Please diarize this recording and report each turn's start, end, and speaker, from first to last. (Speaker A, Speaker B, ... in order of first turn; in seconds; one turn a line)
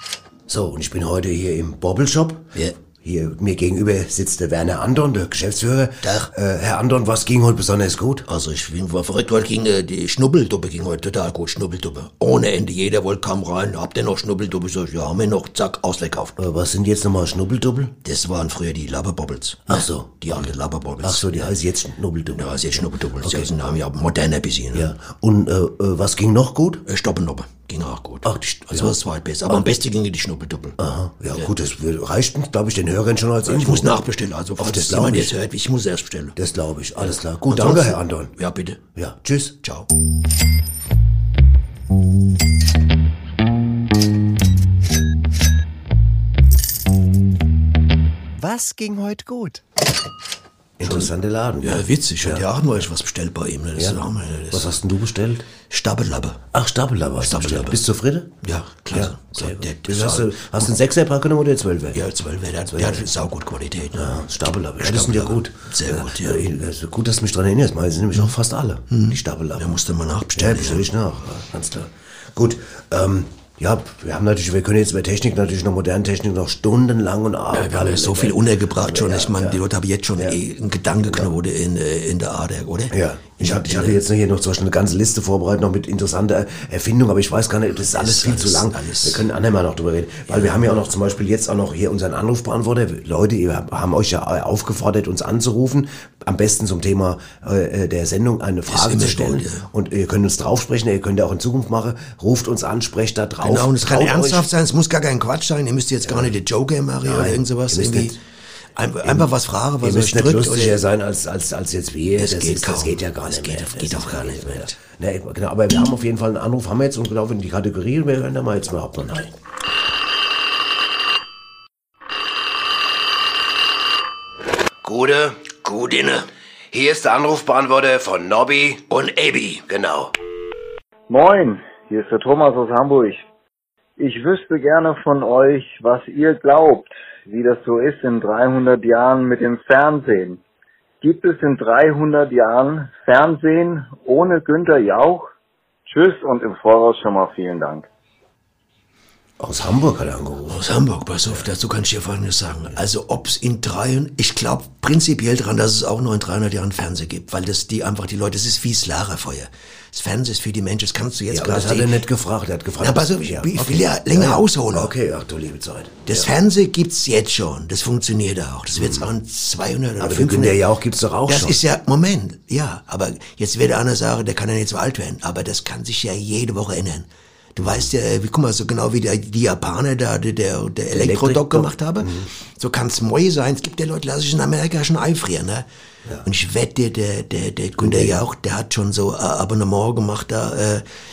Speaker A: 0.5-8.3
Speaker B: 6.0-6.3
Speaker B: 8.3-16.4
Speaker A: 16.4-17.9
Speaker B: 18.0-21.4
Speaker A: 19.7-23.7
Speaker B: 22.3-24.9
Speaker A: 24.7-26.9
Speaker B: 26.9-30.8
Speaker A: 28.2-28.9
Speaker A: 30.8-34.0
Speaker B: 33.5-36.4
Speaker A: 34.6-35.3
Speaker A: 36.4-38.4
Speaker B: 37.1-38.8
Speaker A: 39.0-39.6
Speaker B: 39.6-39.9
Speaker A: 48.4-49.6
Speaker A: 50.8-52.5
Speaker B: 50.8-51.1
Speaker B: 51.6-54.7
Speaker A: 54.5-55.5
Speaker B: 55.7-56.4
Speaker A: 56.5-58.3
Speaker B: 57.2-57.8
Speaker B: 58.4-60.5
Speaker A: 58.9-62.0
Speaker B: 61.9-64.2
Speaker A: 62.7-63.1
Speaker A: 63.9-69.8
Speaker B: 64.8-66.5
Speaker B: 68.9-70.9
Speaker A: 70.4-79.6
Speaker B: 77.5-84.0
Speaker A: 81.0-81.3
Speaker A: 82.9-104.5
Speaker B: 87.9-89.2
Speaker B: 98.7-99.7
Speaker B: 103.4-108.2
Speaker A: 106.0-106.3
Speaker A: 107.0-108.2
Speaker B: 108.8-110.8
Speaker A: 109.0-109.3
Speaker A: 109.8-119.3
Speaker B: 112.2-114.8
Speaker A: 124.8-125.5
Speaker B: 125.6-126.3
Speaker A: 126.7-128.8
Speaker B: 128.9-129.6
Speaker A: 129.7-130.1
Speaker C: 131.1-133.2
Speaker C: 134.0-140.4
Speaker C: 141.0-145.3
Speaker C: 145.9-147.9
Speaker A: 149.4-150.7
Speaker B: 150.5-162.1
Speaker A: 161.3-166.3
Speaker B: 162.8-164.9
Speaker B: 166.1-170.6
Speaker A: 168.7-169.1
Speaker A: 170.0-171.6
Speaker B: 171.3-185.7
Speaker A: 177.6-177.9
Speaker A: 180.9-182.3
Speaker B: 186.2-190.8
Speaker A: 187.8-188.2